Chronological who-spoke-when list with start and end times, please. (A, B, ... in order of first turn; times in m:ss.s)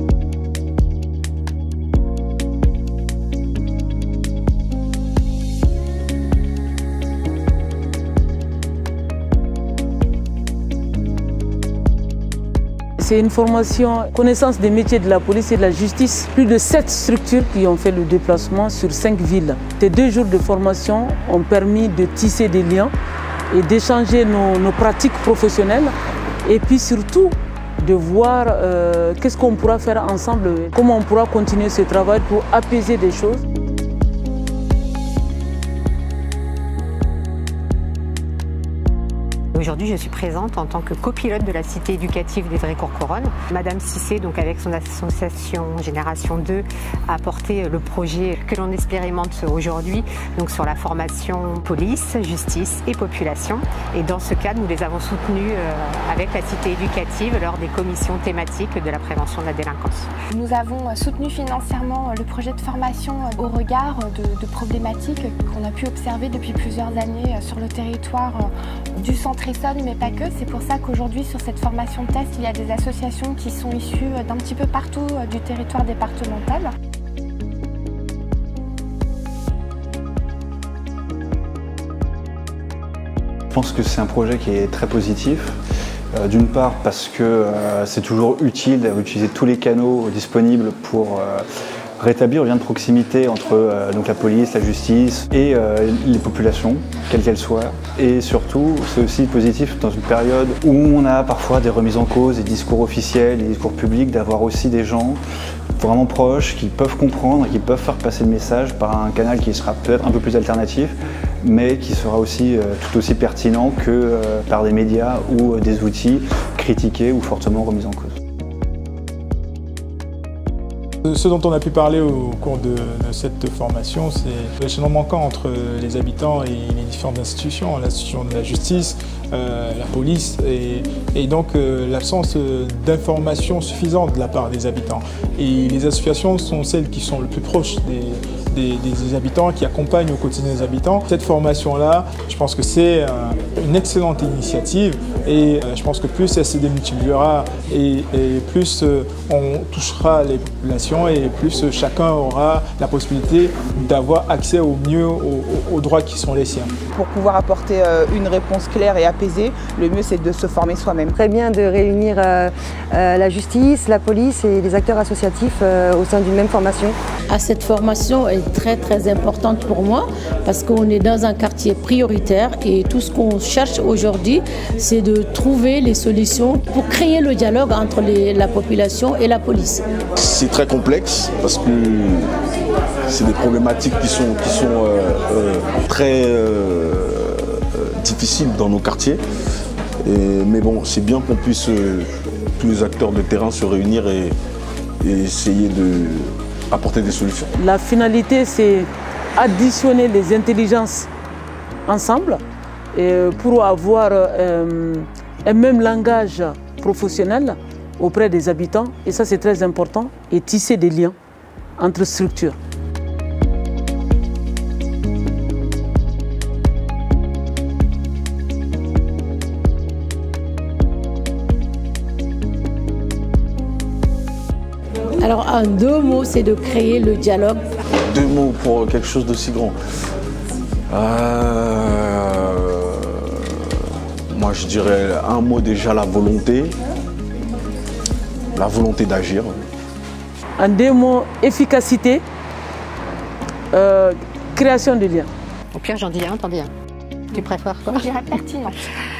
0:13.0-0:22.9 A
0:23.5-0:25.9 A
0:26.4-0:33.4 A
0:39.5-1:00.1 B
1:00.3-1:16.7 C
1:23.5-1:25.6 D
1:26.1-1:31.4 D
1:32.0-1:45.2 D
1:45.8-1:58.1 D
2:01.1-2:36.7 E
2:37.0-2:41.1 F
2:41.1-2:47.0 G
2:47.3-2:59.8 H
3:00.2-3:02.3 I
3:03.1-3:09.2 I
3:10.0-3:12.1 I
3:12.6-3:14.4 I
3:15.0-3:17.5 I
3:17.6-3:21.1 A
3:21.8-3:22.4 A
3:22.9-3:31.2 A
3:31.8-3:32.6 A
3:45.2-3:47.6 H
3:48.1-3:49.8 I
3:50.9-3:53.3 I
3:54.3-3:56.8 I
3:58.5-3:59.6 I
4:00.6-4:02.2 A
4:03.7-4:05.3 A
4:05.7-4:06.7 B
4:07.3-4:08.4 B
4:07.8-4:08.8 C